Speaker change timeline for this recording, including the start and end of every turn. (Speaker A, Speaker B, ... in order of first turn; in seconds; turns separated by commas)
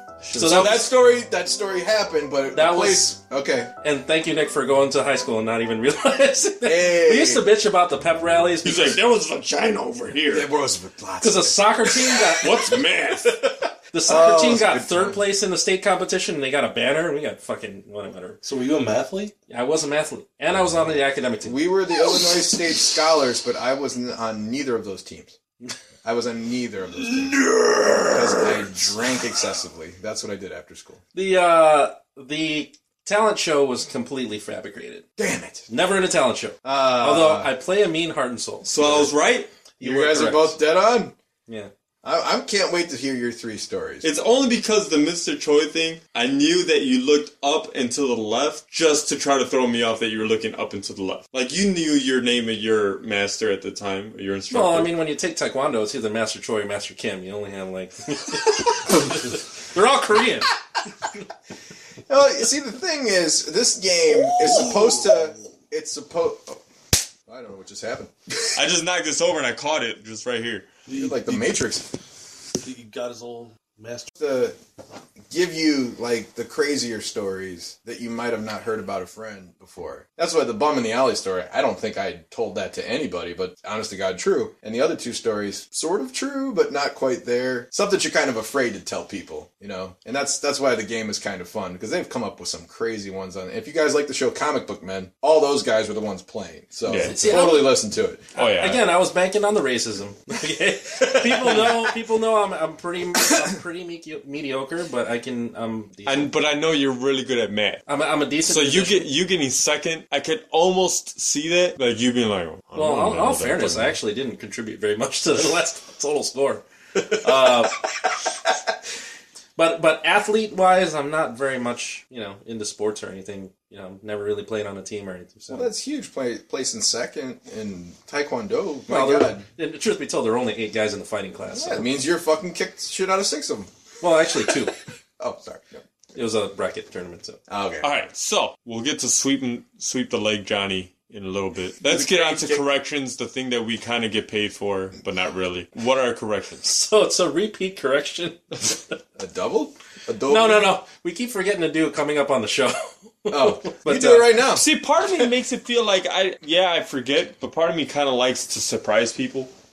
Speaker A: 0.3-3.7, Speaker B: 0.3-0.9, Speaker B: 2.5-3.1, Speaker B: 3.8-9.0, Speaker A: 6.6-7.5, Speaker C: 8.6-10.5, Speaker A: 10.3-12.2, Speaker B: 11.2-12.7, Speaker C: 12.4-13.4, Speaker A: 13.2-13.5, Speaker B: 13.9-18.4, Speaker A: 14.1-15.2, Speaker D: 18.4-19.3, Speaker B: 19.5-21.6, Speaker A: 21.4-25.4, Speaker A: 26.0-31.0, Speaker D: 27.1-28.5, Speaker B: 31.1-35.0, Speaker A: 35.2-35.7, Speaker B: 35.7-39.0, Speaker A: 36.6-37.5, Speaker C: 38.6-39.5, Speaker A: 38.8-39.1, Speaker B: 39.8-40.6, Speaker A: 39.8-41.1, Speaker A: 42.0-44.1, Speaker C: 44.0-54.9, Speaker B: 54.5-60.5, Speaker A: 58.9-59.2, Speaker A: 62.1-66.6, Speaker D: 64.5-65.0, Speaker A: 67.3-68.1, Speaker C: 68.5-70.7, Speaker D: 70.9-71.6, Speaker A: 70.9-71.8, Speaker D: 72.6-74.1, Speaker A: 74.2-74.5, Speaker A: 75.3-98.2, Speaker C: 96.9-97.5, Speaker B: 97.0-97.8, Speaker C: 98.3-98.8, Speaker B: 98.4-106.3, Speaker A: 101.0-101.8, Speaker C: 106.0-107.8, Speaker B: 107.9-109.1, Speaker C: 108.4-114.0, Speaker B: 112.7-117.8, Speaker B: 119.6-125.7, Speaker A: 125.5-129.4, Speaker B: 128.9-131.9, Speaker A: 131.5-133.7, Speaker B: 134.0-134.7, Speaker A: 135.2-135.8, Speaker B: 136.1-137.4, Speaker A: 137.5-137.9, Speaker C: 137.8-146.6, Speaker A: 141.8-142.6, Speaker B: 146.6-148.9, Speaker A: 149.2-150.8, Speaker B: 150.2-154.4, Speaker A: 153.3-154.6, Speaker C: 154.5-159.5